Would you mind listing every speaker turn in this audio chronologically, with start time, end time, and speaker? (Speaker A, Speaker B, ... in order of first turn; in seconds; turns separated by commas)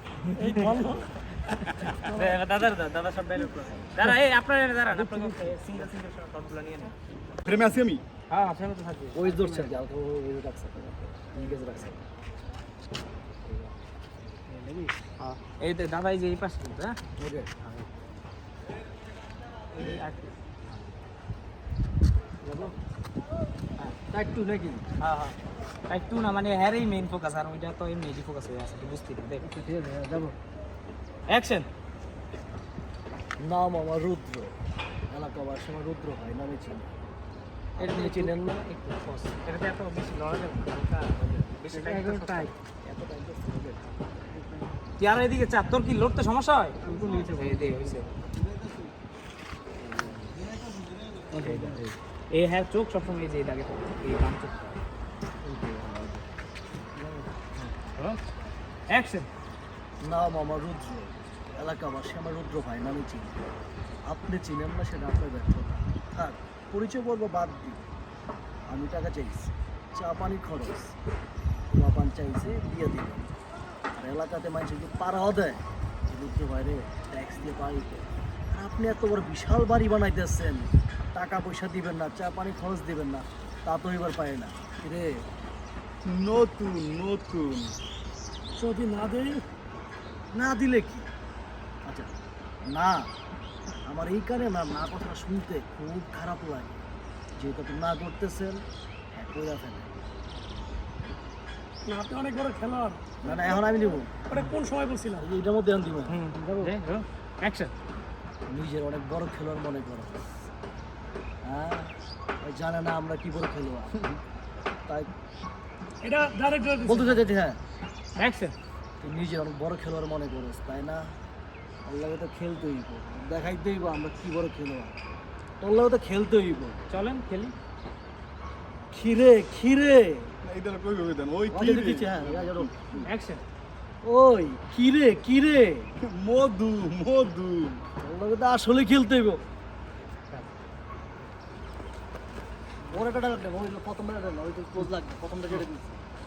Speaker A: 0.2-0.7, Speaker B: 0.3-1.1, Speaker A: 1.4-6.9, Speaker B: 1.9-2.4, Speaker B: 4.9-5.7, Speaker C: 7.5-8.0, Speaker A: 8.3-9.7, Speaker D: 9.1-12.0, Speaker D: 13.5-13.7, Speaker D: 14.5-14.9, Speaker A: 15.2-17.0, Speaker D: 17.2-17.5, Speaker A: 17.6-17.9, Speaker A: 19.7-20.8, Speaker D: 22.4-22.8, Speaker D: 24.1-24.9, Speaker A: 25.0-25.4, Speaker A: 25.9-29.5, Speaker D: 29.4-30.4, Speaker A: 31.3-31.7, Speaker D: 33.4-34.5, Speaker D: 35.1-36.9, Speaker D: 37.8-38.6, Speaker A: 37.8-44.0, Speaker D: 41.7-42.5, Speaker D: 44.3-44.7, Speaker A: 45.0-48.1, Speaker C: 46.8-47.8, Speaker D: 46.9-47.6, Speaker C: 48.5-48.8, Speaker D: 49.8-50.5, Speaker C: 50.6-51.5, Speaker D: 51.3-51.8, Speaker A: 51.4-54.8, Speaker D: 55.5-56.2, Speaker D: 57.0-57.3, Speaker A: 57.6-58.2, Speaker A: 58.9-59.3, Speaker D: 60.0-63.4, Speaker D: 64.1-67.9, Speaker D: 68.7-71.0, Speaker D: 71.7-73.3, Speaker D: 74.0-85.2, Speaker C: 86.0-87.8, Speaker B: 88.6-89.5, Speaker D: 90.3-91.1, Speaker D: 91.8-92.1, Speaker D: 92.6-93.1, Speaker D: 93.7-96.8, Speaker D: 97.4-99.9, Speaker B: 101.9-105.3, Speaker D: 103.2-104.2, Speaker D: 105.2-106.2, Speaker A: 106.1-107.7, Speaker B: 106.3-106.7, Speaker D: 108.5-110.3, Speaker D: 111.4-114.1, Speaker B: 116.0-117.2, Speaker D: 116.8-117.6, Speaker A: 118.2-118.5, Speaker D: 119.0-121.1, Speaker D: 121.8-124.9, Speaker D: 125.6-126.8, Speaker A: 126.9-127.5, Speaker D: 128.9-130.3, Speaker C: 130.4-133.1, Speaker D: 131.5-132.7, Speaker A: 133.0-133.4, Speaker D: 134.0-135.9, Speaker C: 136.0-137.8, Speaker D: 138.0-139.4, Speaker D: 142.9-146.0